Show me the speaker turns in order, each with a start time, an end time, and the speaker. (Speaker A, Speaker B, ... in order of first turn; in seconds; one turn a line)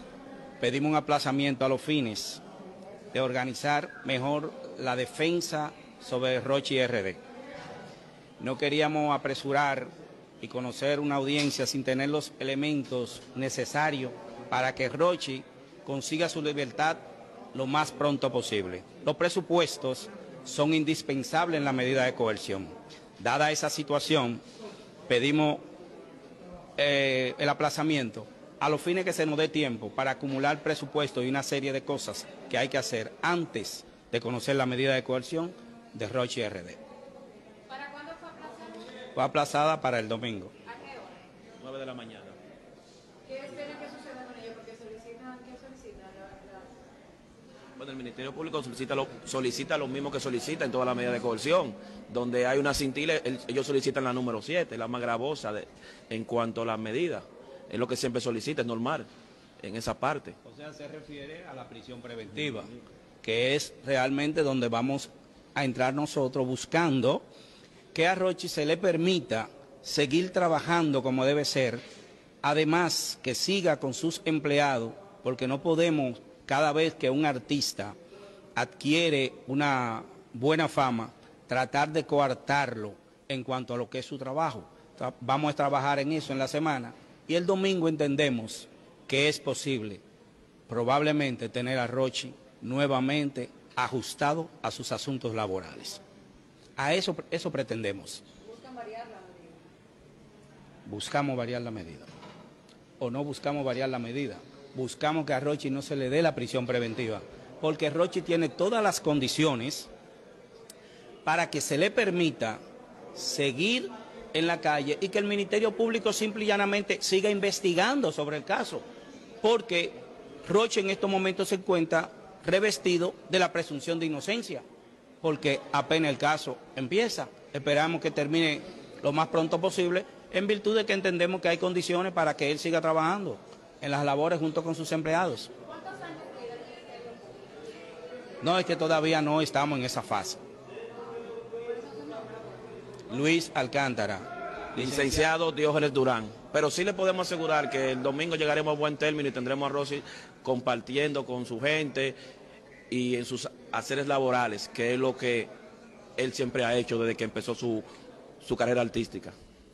Speaker A: 0.6-2.4
Speaker A: 3.1-7.2
Speaker A: 8.4-9.9
Speaker A: 10.4-17.0
Speaker A: 17.5-24.4
Speaker A: 25.1-25.6
Speaker A: 26.8-36.8
Speaker B: 37.7-38.8
Speaker A: 39.1-40.5
Speaker B: 40.8-41.1
Speaker C: 41.6-42.4
Speaker B: 43.3-46.7
Speaker C: 47.8-59.0
Speaker C: 59.6-60.4
Speaker A: 60.4-67.2
Speaker A: 67.9-71.8
Speaker A: 72.4-78.0
Speaker A: 78.5-90.0
Speaker A: 90.7-96.0
Speaker A: 96.8-98.2
Speaker B: 98.4-99.5
Speaker A: 100.8-102.1
Speaker A: 103.0-109.9
Speaker A: 111.2-112.6
Speaker A: 113.1-118.8
Speaker A: 119.4-124.6
Speaker A: 125.2-135.5
Speaker B: 135.7-137.3
Speaker A: 138.4-140.4
Speaker B: 141.6-142.4
Speaker A: 143.1-145.3
Speaker C: 144.7-152.2
Speaker C: 152.9-155.5
Speaker C: 156.2-157.8
Speaker C: 158.4-159.3